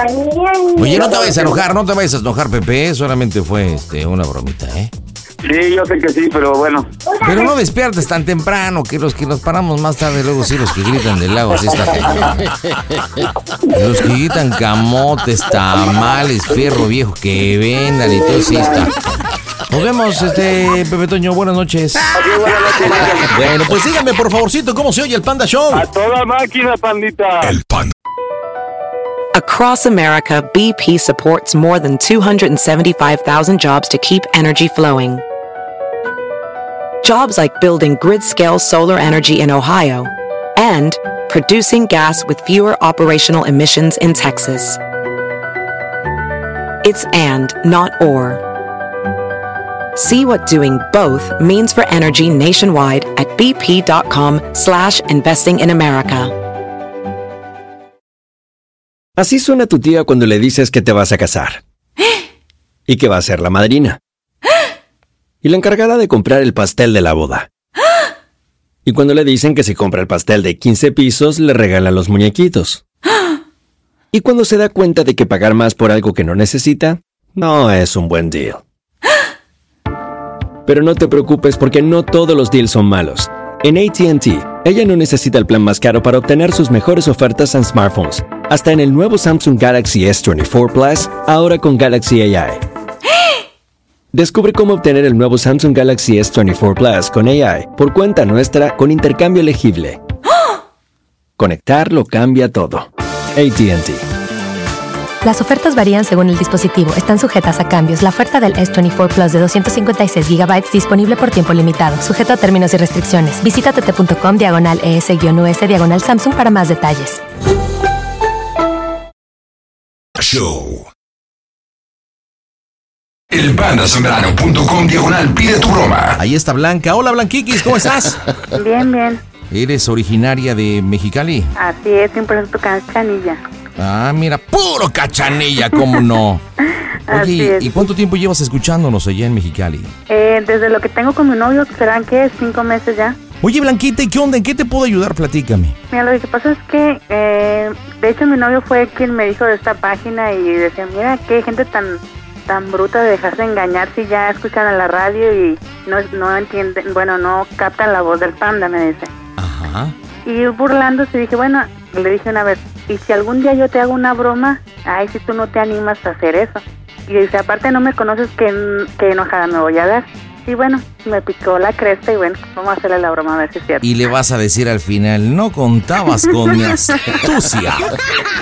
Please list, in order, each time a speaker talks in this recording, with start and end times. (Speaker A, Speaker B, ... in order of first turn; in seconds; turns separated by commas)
Speaker A: 0.8-4.9, Speaker B: 0.8-1.6, Speaker B: 5.4-6.9, Speaker A: 7.2-12.3, Speaker A: 13.7-18.9, Speaker B: 18.1-18.7, Speaker A: 19.7-22.1, Speaker B: 22.1-23.3, Speaker A: 23.2-25.9, Speaker B: 26.5-27.2, Speaker C: 29.3-35.2, Speaker C: 37.0-44.8, Speaker C: 46.8-48.4, Speaker C: 50.0-56.3, Speaker D: 59.2-61.6, Speaker D: 62.9-64.0, Speaker D: 65.4-67.5, Speaker D: 68.8-72.8, Speaker D: 74.1-78.6, Speaker D: 80.7-92.6, Speaker D: 94.1-100.0, Speaker D: 101.4-104.0, Speaker E: 105.2-117.2, Speaker F: 123.3-126.2, Speaker A: 126.2-128.2, Speaker G: 128.6-129.2, Speaker A: 129.5-131.5, Speaker G: 131.6-133.4, Speaker A: 133.8-136.4, Speaker G: 137.1-137.8, Speaker A: 137.1-139.9, Speaker G: 140.1-143.2, Speaker A: 143.4-145.8, Speaker G: 145.9-159.1, Speaker A: 159.4-159.9, Speaker G: 160.2-173.8, Speaker A: 173.8-177.9